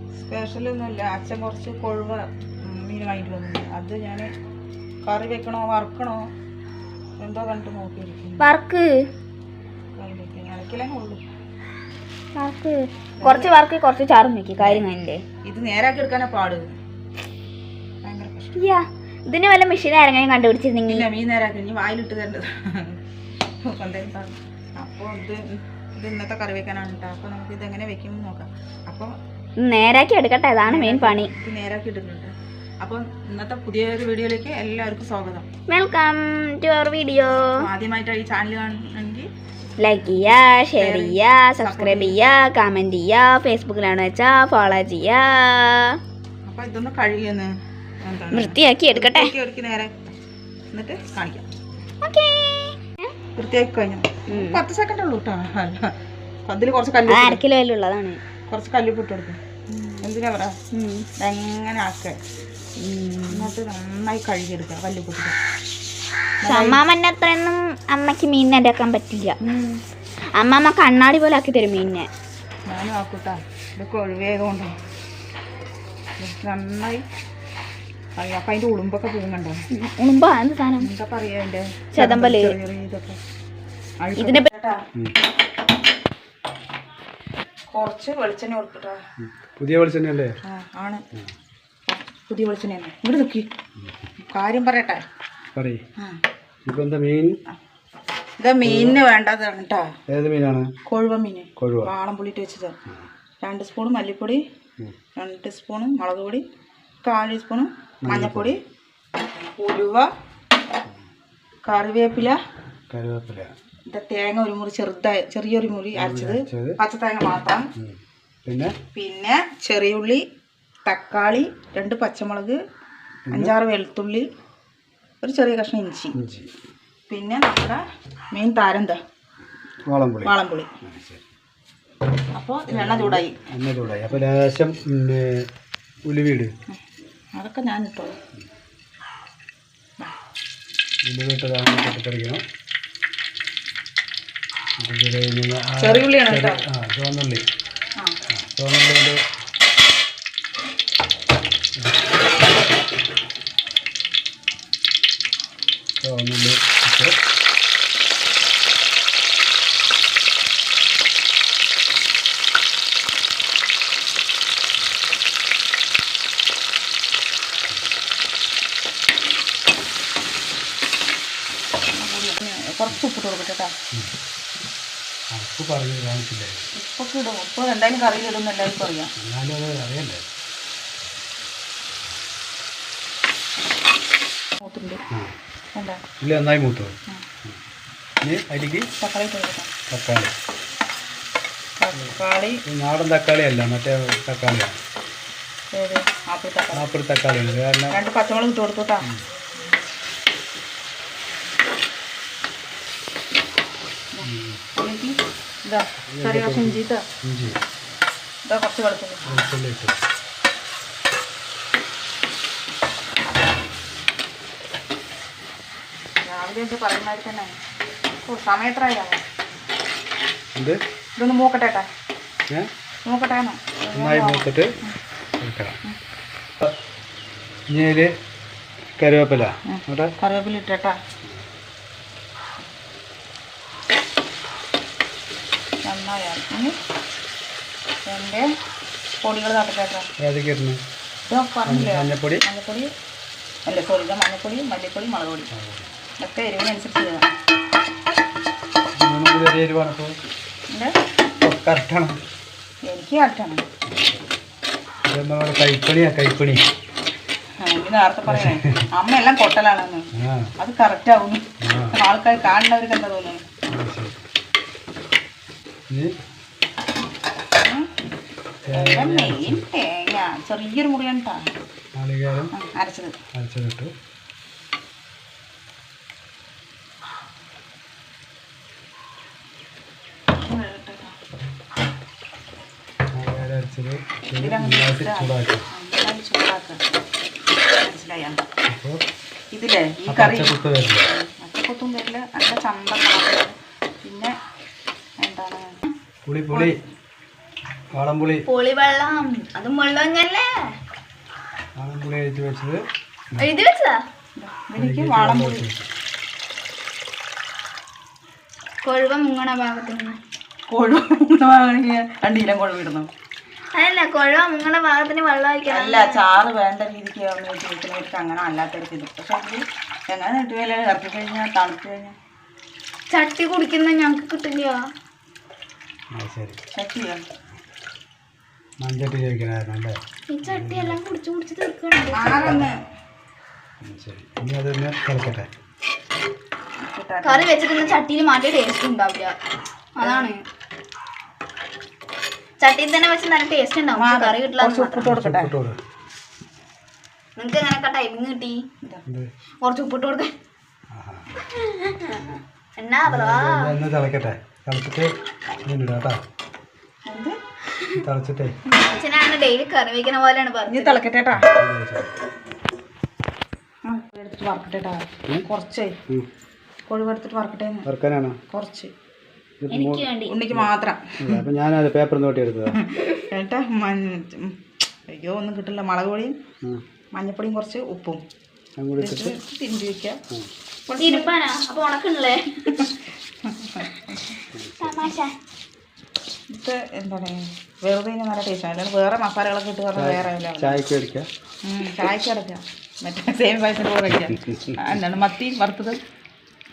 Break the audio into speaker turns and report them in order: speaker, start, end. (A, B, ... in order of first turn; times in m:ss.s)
0:00.2-0:04.3 A
0:05.0-0:06.3 A
0:07.2-0:08.4 A
0:08.4-0:09.0 B
0:10.0-0:11.2 A
0:12.4-0:15.2 B
0:13.2-0:13.5 A
0:14.6-0:14.8 A
0:15.4-0:16.7 A
0:18.0-0:18.5 A
0:18.5-0:21.1 B
0:20.9-0:23.0 A
0:23.7-0:25.4 A
0:25.9-0:29.1 A
0:29.6-0:31.3 B
0:30.7-0:35.4 A
0:35.7-0:37.6 B
0:37.6-0:39.3 A
0:39.8-0:46.0 B
0:40.8-0:42.2 A
0:46.5-0:47.5 A
0:48.0-0:49.9 A
0:48.3-0:49.3 B
0:50.7-0:51.5 A
0:52.0-0:52.9 B
0:53.4-0:55.9 A
0:54.3-0:54.6 B
0:56.5-0:57.4 A
0:57.1-0:58.2 B
0:58.5-1:00.6 A
1:00.7-1:01.1 B
1:01.2-1:02.2 A
1:02.8-1:03.5 B
1:03.3-1:05.4 A
1:06.4-1:06.8 A
1:06.5-1:09.4 B
1:09.4-1:09.8 A
1:10.3-1:12.1 B
1:12.7-1:14.7 A
1:16.2-1:17.0 A
1:18.2-1:19.6 A
1:19.7-1:20.9 B
1:20.8-1:23.2 A
1:22.0-1:22.6 B
1:24.0-1:24.8 A
1:24.2-1:24.5 B
1:27.7-1:29.0 A
1:29.2-1:30.4 C
1:30.4-1:31.0 A
1:31.9-1:33.5 A
1:34.3-1:35.0 A
1:35.6-1:35.8 C
1:36.7-1:37.4 C
1:38.4-1:39.9 A
1:38.6-1:39.0 C
1:40.1-1:40.7 C
1:40.9-1:42.8 A
1:41.6-1:41.9 C
1:43.4-1:44.4 A
1:45.2-1:46.4 A
1:47.0-1:48.6 A
1:48.0-1:48.5 C
1:49.6-1:50.1 A
1:51.6-1:52.4 A
1:52.9-1:53.5 C
1:53.9-1:57.7 A
1:56.0-1:56.8 C
1:57.8-1:58.7 C
1:58.9-2:00.2 A
2:00.9-2:02.6 A
2:03.3-2:03.5 C
2:03.3-2:04.3 A
2:05.2-2:06.2 A
2:06.1-2:06.5 C
2:07.1-2:07.8 A
2:08.3-2:09.0 A
2:09.9-2:10.3 C
2:10.2-2:10.7 A
2:10.8-2:11.2 C
2:12.4-2:13.4 A
2:12.7-2:15.4 C
2:16.1-2:16.5 C
2:17.4-2:18.2 A
2:21.0-2:22.4 C
2:24.8-2:27.4 C
2:25.8-2:26.6 A
2:28.3-2:29.2 C
2:31.8-2:32.0 C
2:36.0-2:37.2 C
2:51.9-2:53.7 A
2:55.4-2:56.7 C
2:56.8-2:59.1 A
2:59.2-3:00.2 C
3:04.6-3:05.0 A
3:05.8-3:06.0 A
3:06.2-3:07.6 C
3:08.2-3:08.9 C
3:09.0-3:09.7 A
3:09.9-3:10.3 C
3:11.8-3:12.6 A
3:12.7-3:14.8 C
3:15.7-3:16.9 A
3:16.7-3:18.0 C
3:17.9-3:19.1 A
3:24.1-3:27.0 A
3:24.2-3:24.6 C
3:26.1-3:27.6 C
3:28.5-3:29.3 A
3:29.3-3:30.0 C
3:36.3-3:37.5 A
3:38.3-3:39.2 A
3:41.2-3:41.9 A
3:43.0-3:44.9 A
3:43.9-3:44.7 C
3:45.4-3:45.8 C
3:47.7-3:48.1 C
3:49.0-3:50.1 C
3:49.7-3:51.0 A
3:55.8-3:56.8 A
3:58.1-3:58.5 A
3:59.2-4:00.1 A
4:00.2-4:00.8 C
4:01.3-4:02.9 A
4:01.7-4:02.4 C
4:03.7-4:05.5 A
4:05.5-4:05.9 C
4:06.2-4:07.3 A
4:09.0-4:10.2 C
4:11.4-4:12.2 C
4:12.9-4:13.6 A
4:13.9-4:14.3 C
4:15.1-4:16.6 C
4:17.6-4:23.4 A
4:18.3-4:18.8 C
4:20.2-4:20.5 C
4:21.6-4:22.0 C
4:23.7-4:24.2 C
4:28.7-4:29.6 C
4:28.7-4:31.5 A
4:32.0-4:32.5 C
4:32.5-4:33.2 A
4:33.4-4:33.9 C
4:40.4-4:41.2 A
4:43.1-4:45.7 C
4:44.4-4:46.8 A
4:47.8-4:48.4 A
4:48.7-4:49.0 C
4:49.5-4:54.3 A
4:50.1-4:51.1 C
4:55.2-4:55.8 A
4:56.3-4:56.8 C
4:56.5-4:56.8 A
4:58.0-4:58.4 C
4:58.5-5:00.5 B
5:01.8-5:02.8 C
5:03.4-5:04.0 B
5:04.4-5:05.7 A
5:04.8-5:05.9 C
5:08.8-5:10.2 B
5:10.7-5:13.1 A
5:13.7-5:16.2 B
5:15.7-5:22.2 A
5:23.1-5:24.8 B
5:26.1-5:26.6 C
5:26.7-5:27.2 A
5:28.8-5:31.0 C
5:30.3-5:32.6 B
5:32.1-5:32.8 A
5:32.4-5:32.7 C
5:33.8-5:35.5 C
5:36.8-5:37.5 A
5:37.2-5:39.4 B
5:40.0-5:40.4 B
5:40.0-5:40.3 A
5:42.6-5:45.1 B
5:44.0-5:45.5 A
5:45.0-5:45.8 C
5:47.4-5:48.6 B
5:49.6-5:50.3 B
5:50.9-5:51.3 C
5:51.4-5:53.7 B
5:53.1-5:55.1 C
5:55.6-5:56.2 C
5:57.1-5:57.4 A
5:58.0-5:58.6 C
5:58.8-6:01.0 B
6:00.7-6:01.5 A
6:01.3-6:02.1 C
6:03.8-6:06.0 A
6:06.9-6:07.9 A
6:07.8-6:08.4 C
6:08.5-6:08.9 A
6:09.6-6:10.7 C
6:09.7-6:10.4 B
6:10.3-6:11.4 A
6:11.2-6:12.8 C
6:12.7-6:14.6 A
6:15.1-6:16.4 A
6:17.1-6:18.2 A
6:18.8-6:19.4 C
6:19.0-6:20.2 A
6:20.9-6:21.3 A
6:21.0-6:22.7 B
6:23.5-6:24.2 A
6:24.5-6:25.0 C
6:24.8-6:25.3 B
6:26.5-6:30.8 A
6:30.0-6:31.3 C
6:31.6-6:36.0 A